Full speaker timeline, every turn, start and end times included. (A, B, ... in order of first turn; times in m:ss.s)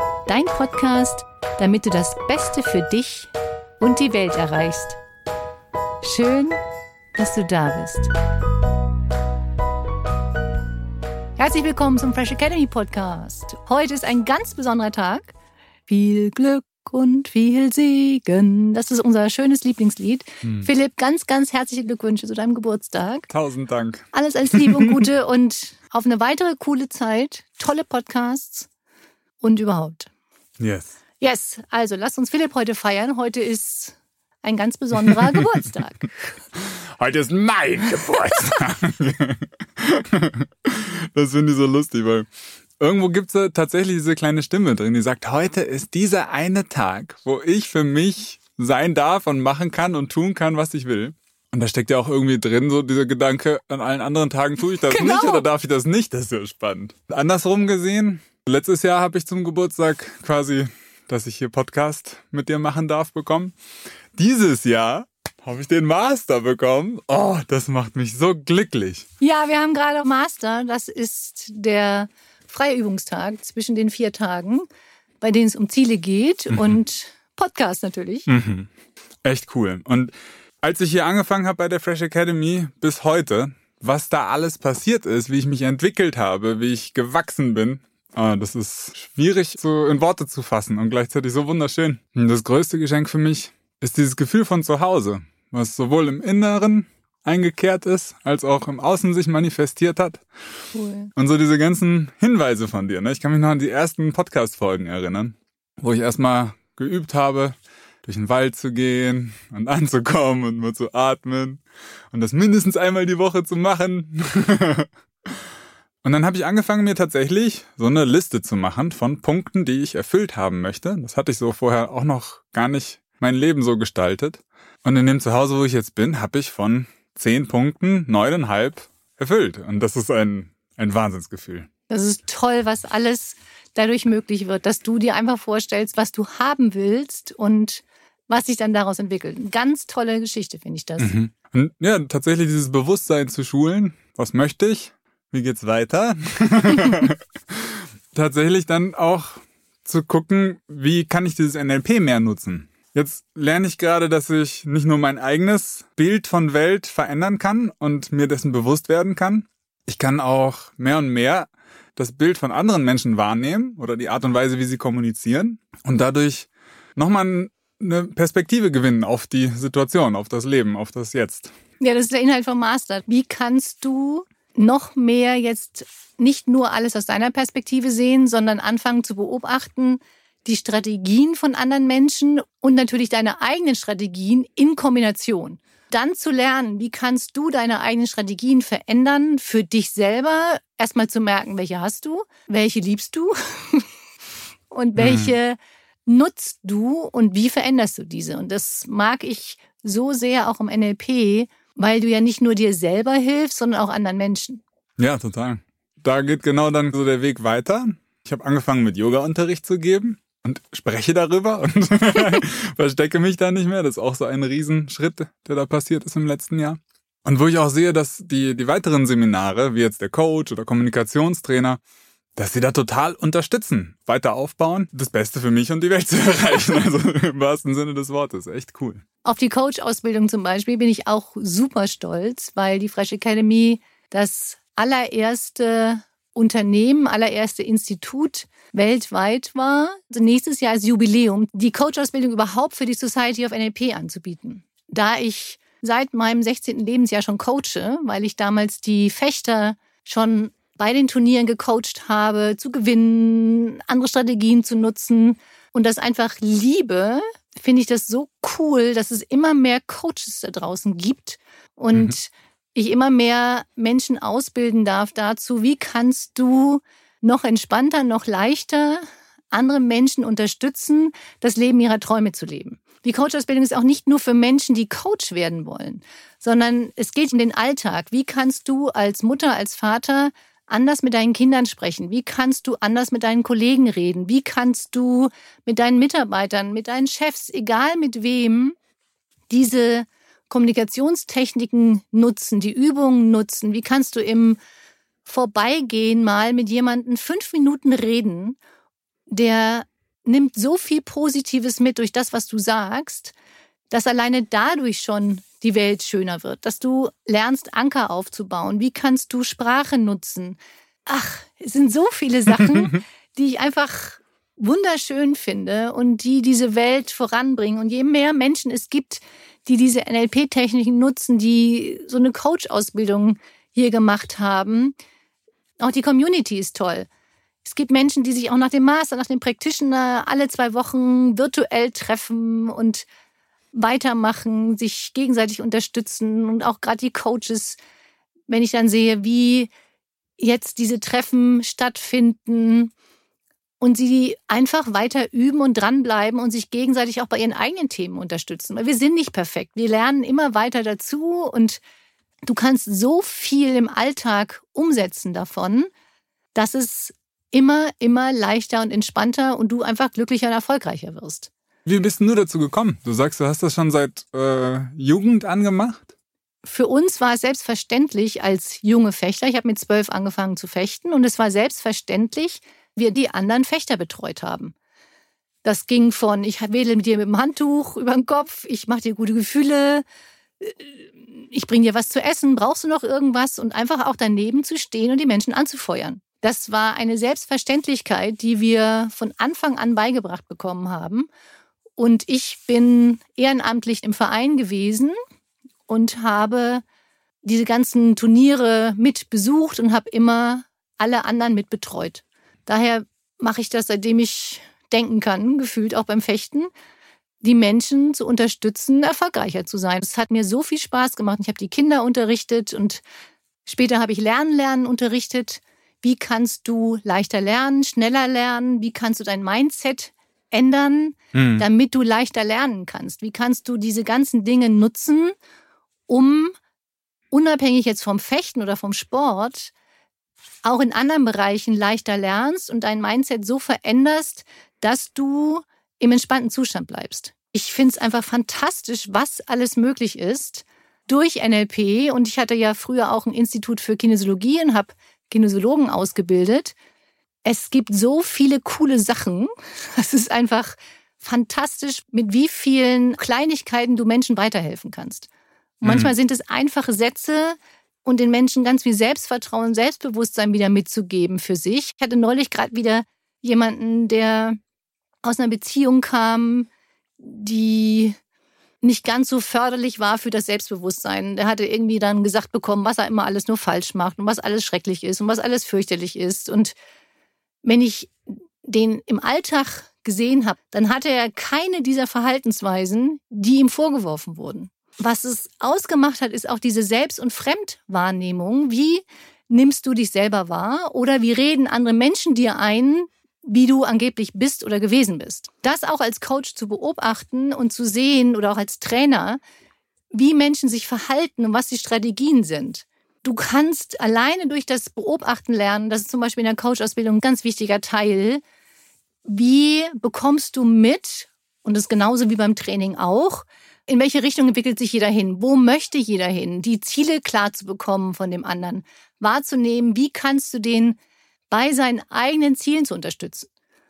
0:00.3-0:05.0 A
0:06.0-0:06.6 A
0:07.2-0:08.1 A
0:11.4-0:15.3 A
0:15.9-0:23.3 A
0:23.3-0:25.0 B
0:24.1-0:28.7 A
0:29.4-0:30.1 A
0:30.6-0:31.0 B
0:31.2-0:36.4 A
0:36.6-0:42.3 B
0:42.8-1:03.5 B
0:54.8-0:55.5 A
1:04.2-1:09.0 B
1:09.2-1:14.7 A
1:15.2-1:18.3 A
1:16.5-1:16.8 B
1:18.3-1:18.7 B
1:19.2-1:40.2 B
1:40.7-1:41.1 A
1:41.2-1:54.9 B
1:56.0-2:11.7 B
2:11.9-2:21.1 A
2:21.0-2:51.5 B
2:51.8-3:13.9 A
3:14.7-3:24.6 A
3:15.0-3:15.3 B
3:25.0-3:41.8 B
3:42.4-3:49.0 B
3:49.2-4:48.8 A
4:49.5-4:54.6 A
4:55.2-4:58.6 A
4:59.3-5:03.3 A
5:03.9-5:25.0 A
5:25.8-5:27.1 A
5:27.6-5:33.1 A
5:33.7-5:37.8 A
5:38.5-5:39.7 A
5:40.4-5:42.9 A
5:43.8-5:51.8 A
5:52.5-5:55.9 A
5:56.6-6:01.5 A
6:01.9-6:06.1 B
6:06.6-6:14.8 A
6:15.6-6:20.0 A
6:20.6-6:31.3 A
6:32.0-6:35.2 A
6:35.9-6:36.8 A
6:37.4-6:46.7 A
6:47.4-6:53.0 A
6:53.6-7:05.4 A
7:01.4-7:01.6 B
7:06.1-7:06.6 A
7:07.3-7:09.7 A
7:10.6-7:26.8 A
7:27.4-7:35.3 A
7:35.8-7:44.6 A
7:35.8-7:36.1 B
7:45.2-7:48.2 A
7:48.8-7:56.8 A
7:57.6-7:58.1 A
7:58.6-8:19.4 A
8:20.1-8:28.4 A
8:29.3-8:41.0 A
8:41.5-8:43.5 A